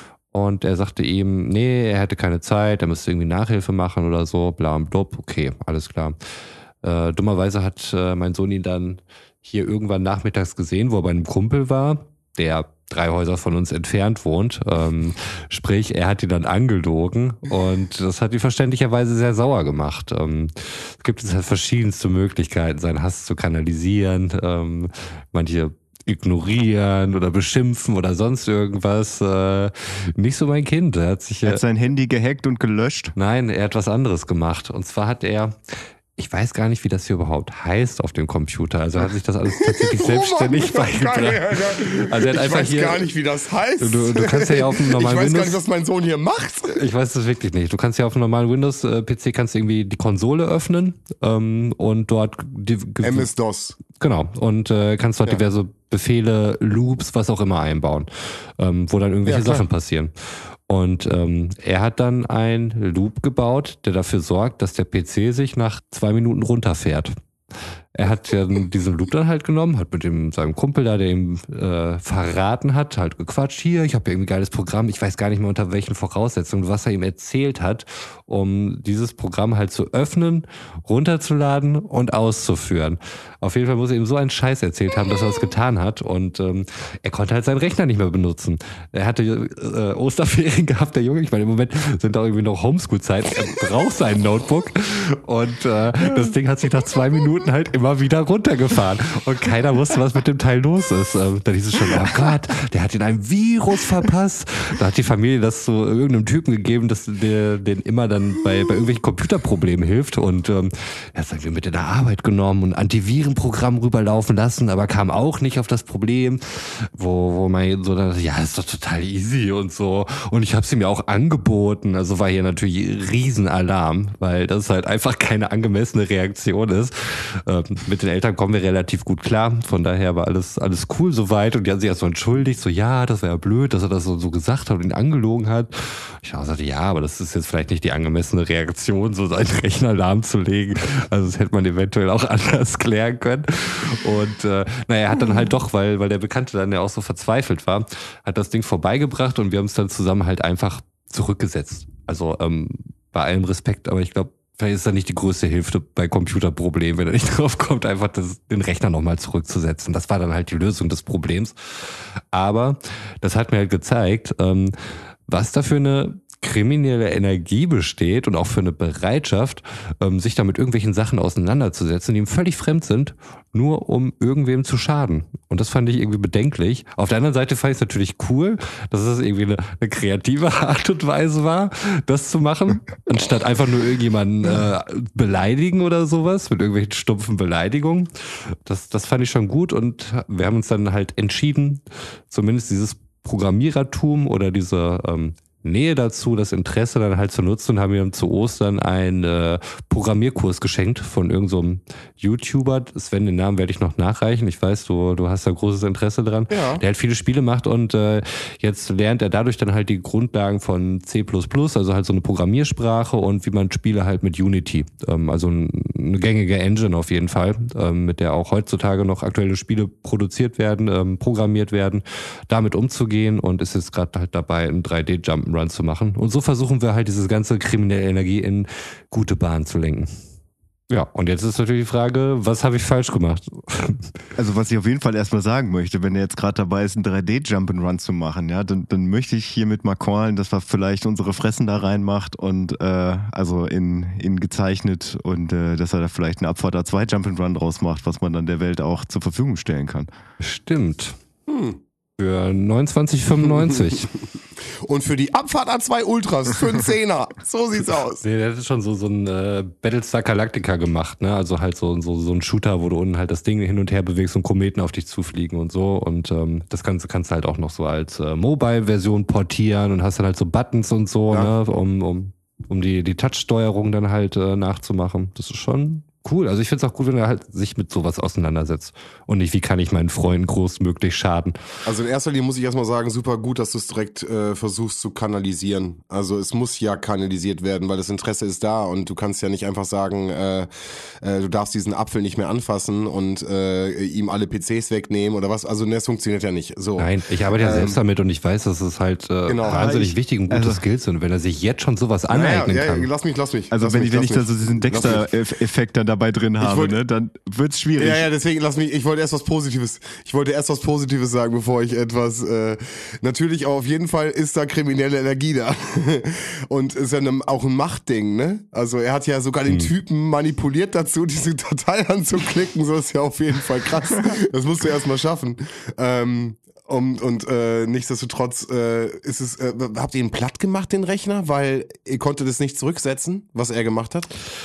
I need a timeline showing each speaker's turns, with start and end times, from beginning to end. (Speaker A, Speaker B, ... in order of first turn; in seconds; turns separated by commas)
Speaker A: 0.3-6.2, Speaker A: 6.8-31.6, Speaker B: 31.4-33.1, Speaker A: 33.2-43.1, Speaker C: 39.5-46.8, Speaker A: 43.8-45.6, Speaker A: 46.8-53.3, Speaker C: 53.0-53.8, Speaker A: 53.9-60.1, Speaker C: 59.3-59.7, Speaker A: 60.7-67.2, Speaker A: 68.0-164.8, Speaker A: 165.3-230.2, Speaker C: 206.5-206.8, Speaker A: 230.9-234.1, Speaker B: 234.4-250.1, Speaker A: 250.4-251.2, Speaker C: 251.5-251.8, Speaker A: 252.2-254.1, Speaker C: 254.8-258.2, Speaker A: 258.2-281.6, Speaker C: 281.9-290.7, Speaker C: 291.2-298.0, Speaker A: 297.0-303.1, Speaker C: 299.5-300.2, Speaker B: 300.5-300.8, Speaker C: 302.3-305.3, Speaker B: 303.7-308.3, Speaker C: 306.6-307.0, Speaker C: 308.0-334.3